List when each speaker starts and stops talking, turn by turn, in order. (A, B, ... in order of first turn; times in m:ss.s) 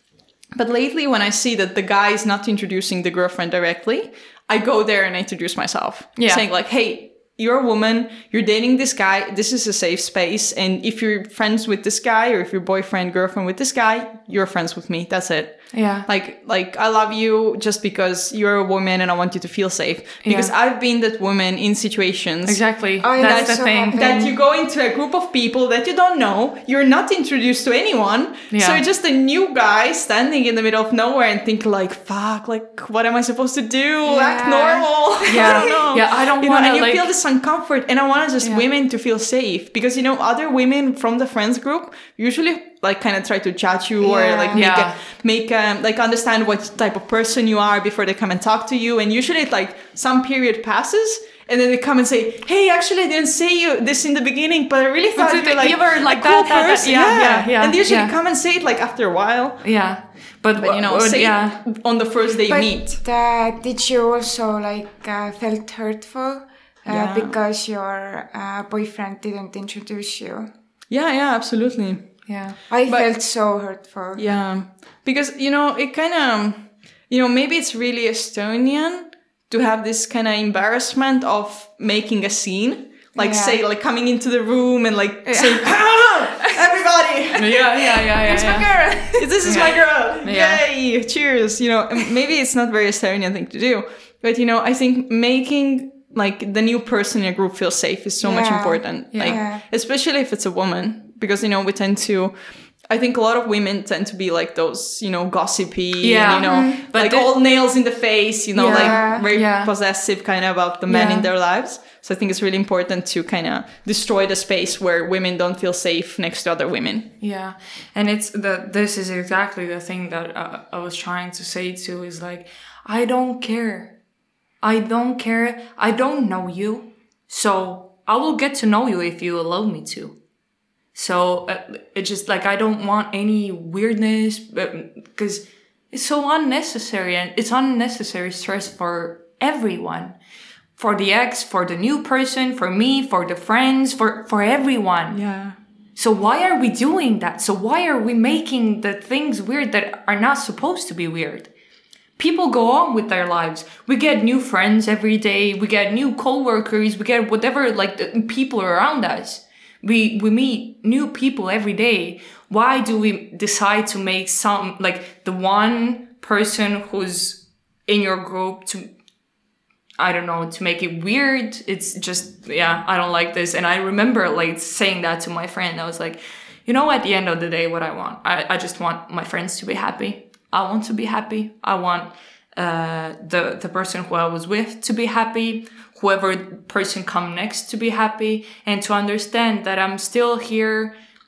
0:00.5-0:22.6 A
0:06.2-0:06.4 B
0:15.7-0:16.1 B
0:20.2-0:20.5 B
0:22.4-0:24.1 B
0:23.0-0:24.3 C
0:23.2-0:59.7 A
0:28.5-0:28.8 B
0:34.0-0:35.8 C
0:35.2-0:37.1 B
0:44.0-0:44.8 C
0:44.5-0:45.0 B
0:55.1-0:58.1 B
0:59.6-1:01.6 B
1:00.6-1:03.0 A
1:02.5-1:10.5 C
1:06.9-1:07.4 A
1:10.9-1:12.2 A
1:12.3-1:12.6 B
1:12.7-1:14.2 C
1:14.2-1:27.6 A
1:23.2-1:23.6 C
1:25.2-1:26.8 C
1:27.3-1:29.8 C
1:27.4-1:28.7 B
1:29.2-1:57.1 A
1:29.4-1:30.6 B
1:38.2-1:39.6 C
1:39.1-1:39.4 B
1:46.0-1:47.3 B
1:46.3-1:46.8 C
1:48.5-1:49.7 B
1:48.6-1:49.3 C
1:50.9-1:51.3 B
1:57.2-2:03.9 B
2:04.6-2:10.2 B
2:10.9-2:20.2 B
2:20.7-2:25.2 B
2:25.1-2:25.6 A
2:26.0-2:31.5 B
2:32.2-2:48.9 B
2:50.0-3:10.9 B